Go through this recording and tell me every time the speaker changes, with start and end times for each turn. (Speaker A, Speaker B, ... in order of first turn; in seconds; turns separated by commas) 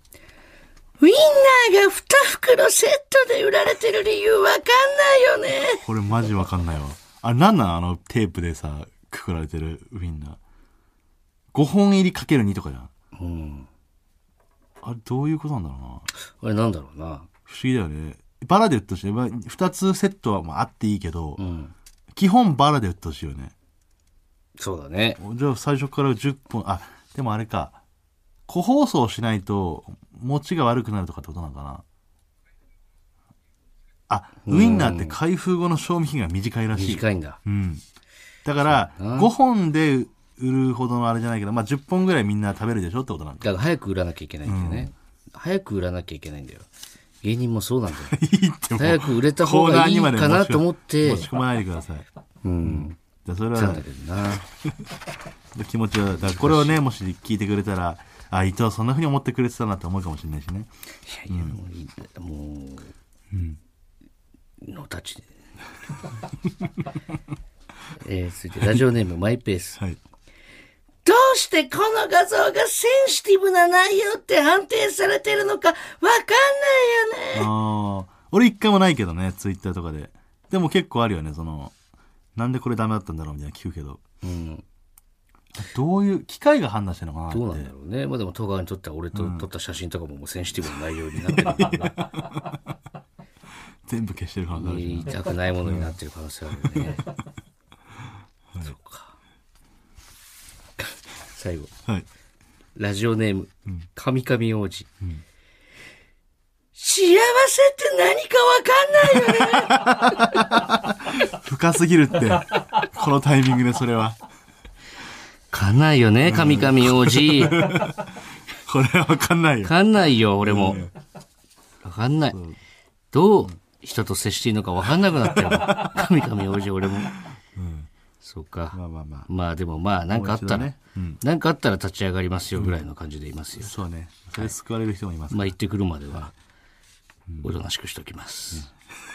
Speaker A: 1.0-5.8, Speaker B: 5.8-10.4, Speaker B: 11.5-12.9, Speaker A: 13.1-13.7, Speaker B: 14.8-16.1, Speaker A: 16.3-17.3, Speaker B: 17.5-21.4, Speaker A: 21.4-21.7, Speaker B: 22.1-23.5, Speaker A: 24.6-25.2, Speaker B: 25.2-27.8, Speaker B: 28.5-31.8, Speaker B: 34.1-37.8, Speaker A: 34.5-35.2, Speaker A: 36.8-37.4, Speaker B: 38.5-43.5, Speaker A: 38.6-39.3, Speaker A: 43.4-46.6, Speaker B: 44.5-44.9, Speaker A: 47.2-48.2, Speaker B: 48.1-52.1, Speaker A: 48.8-51.3, Speaker A: 52.4-53.0, Speaker B: 52.6-53.9, Speaker A: 53.5-54.4, Speaker B: 55.5-60.7, Speaker A: 56.4-56.8, Speaker A: 61.1-62.9, Speaker B: 61.3-61.6, Speaker B: 63.3-63.6, Speaker A: 64.6-65.3, Speaker A: 68.0-69.8, Speaker A: 71.0-77.5, Speaker B: 77.3-81.7, Speaker B: 82.4-84.0, Speaker A: 84.2-84.6, Speaker B: 85.5-87.7, Speaker A: 87.3-92.0, Speaker B: 89.1-89.5, Speaker B: 91.2-92.6, Speaker B: 93.9-96.0, Speaker A: 94.5-97.0, Speaker B: 96.6-97.1, Speaker A: 98.6-99.2, Speaker A: 101.3-101.7, Speaker A: 102.8-104.9, Speaker A: 106.8-110.3, Speaker B: 109.4-114.2, Speaker A: 115.5-117.6, Speaker B: 116.2-118.1, Speaker B: 118.7-119.8, Speaker A: 119.6-120.9, Speaker B: 120.4-120.9, Speaker A: 121.8-122.4, Speaker B: 122.3-122.6, Speaker A: 123.1-127.2, Speaker B: 125.3-126.0, Speaker B: 127.6-127.9, Speaker A: 128.2-133.8, Speaker B: 128.7-129.3, Speaker B: 130.1-131.2, Speaker B: 133.6-135.5, Speaker A: 135.3-136.3, Speaker B: 137.3-137.6, Speaker A: 137.4-138.7